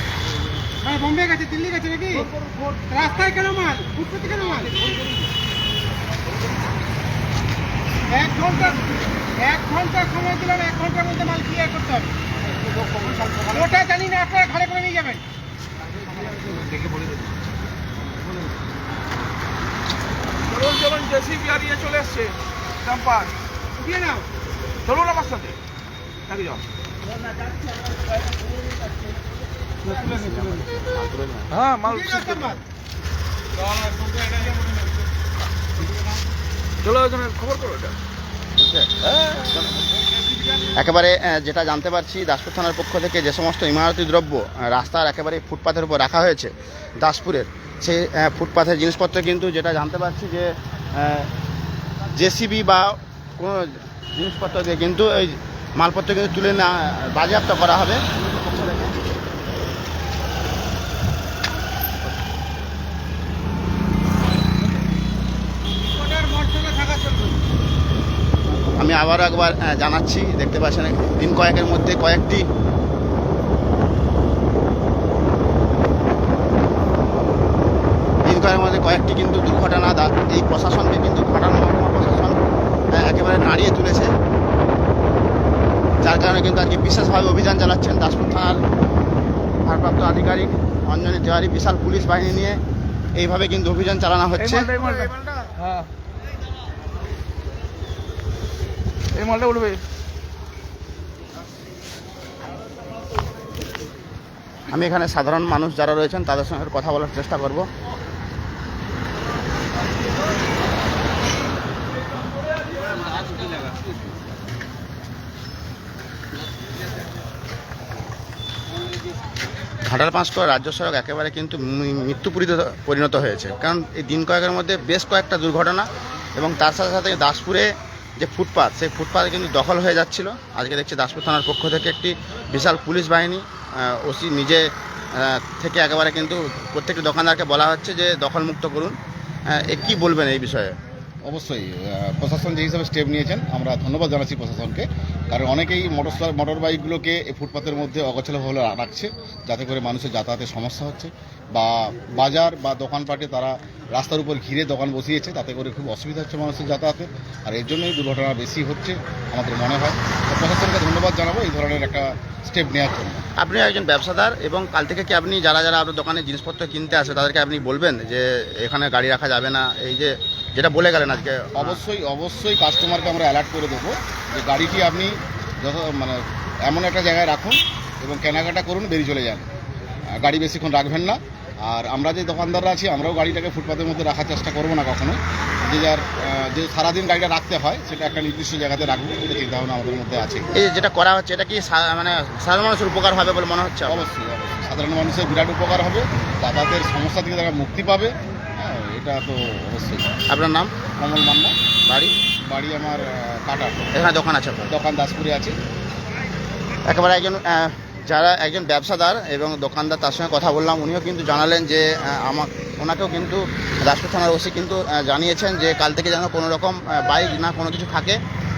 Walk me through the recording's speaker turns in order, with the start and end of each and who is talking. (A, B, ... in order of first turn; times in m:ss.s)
0:00.8-0:02.2 A
0:02.9-0:04.7 A
0:08.1-0:08.8 A
0:09.4-0:12.1 A
0:13.0-0:13.4 B
0:13.5-0:15.2 A
0:20.5-0:23.3 B
0:23.8-0:24.2 A
0:24.8-0:25.6 B
0:26.3-0:26.6 B
0:29.8-0:31.6 C
0:31.5-0:32.4 B
0:31.8-0:32.6 A
0:33.9-0:34.4 A
0:36.8-0:38.0 B
0:38.6-0:38.9 C
0:39.4-0:39.7 C
0:40.7-0:51.3 C
0:52.1-0:58.9 C
1:06.0-1:07.4 A
1:08.8-1:12.4 C
1:18.2-1:22.4 C
1:23.0-1:24.1 C
1:26.0-1:28.6 C
1:29.6-1:32.6 C
1:33.2-1:34.7 C
1:39.2-1:39.8 B
1:44.7-1:47.7 C
1:59.8-2:18.9 C
2:19.5-2:20.7 C
2:21.2-2:43.2 D
2:43.4-2:51.8 C
2:51.6-2:59.5 D
3:00.2-3:10.5 D
3:10.5-3:14.0 C
3:13.9-3:20.2 D
3:20.3-3:20.7 C
3:21.0-3:21.5 D
3:21.8-3:22.1 C
3:22.4-3:23.9 D
3:23.9-3:24.7 C
3:24.7-3:25.5 D
3:26.9-3:38.2 C